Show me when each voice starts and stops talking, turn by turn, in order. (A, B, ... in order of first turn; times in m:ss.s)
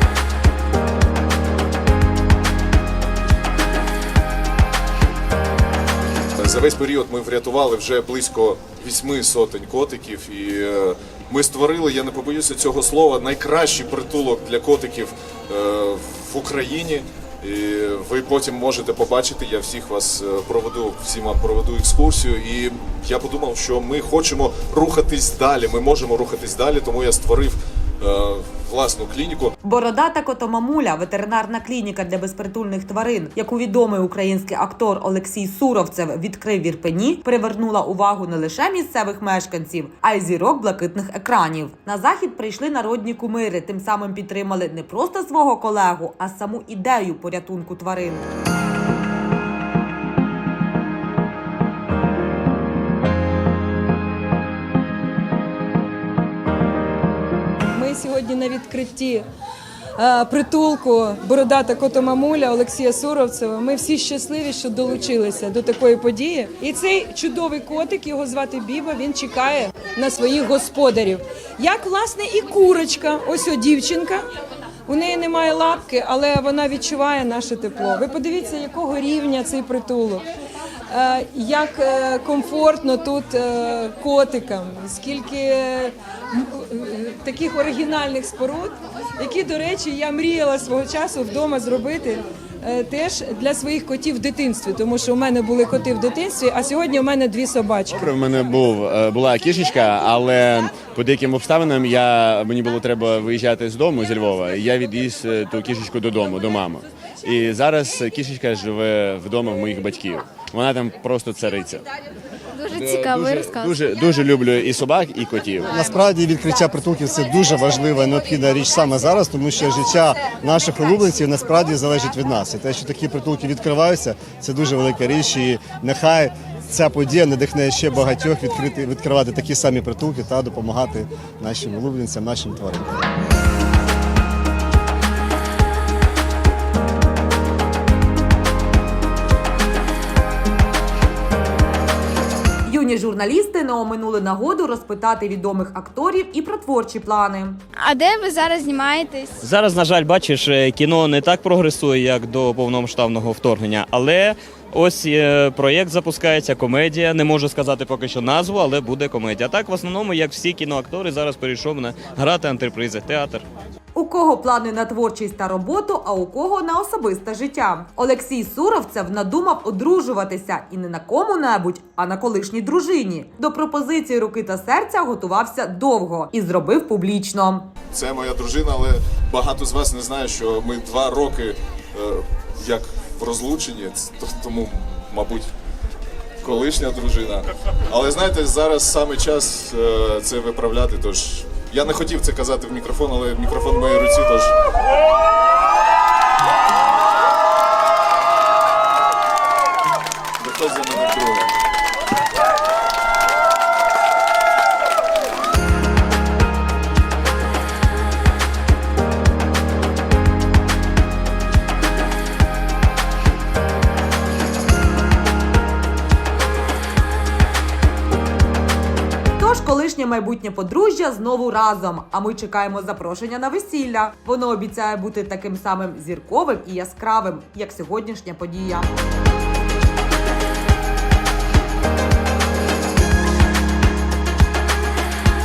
0:06.4-0:29.5 A
0:29.6-0:48.3 B
0:57.7-0:59.2 C
1:00.0-1:14.2 C
1:14.9-1:20.2 C
1:20.9-1:38.1 C
1:37.9-1:51.8 D
1:52.6-1:53.8 E
1:52.7-1:55.7 D
1:55.7-2:13.1 F
2:22.7-2:27.6 B
2:27.8-2:29.4 E
2:29.4-2:43.4 G
2:43.9-2:57.7 B
2:57.9-3:05.5 A
3:06.4-3:14.5 A
3:20.4-3:21.5 A
3:39.4-3:48.9 B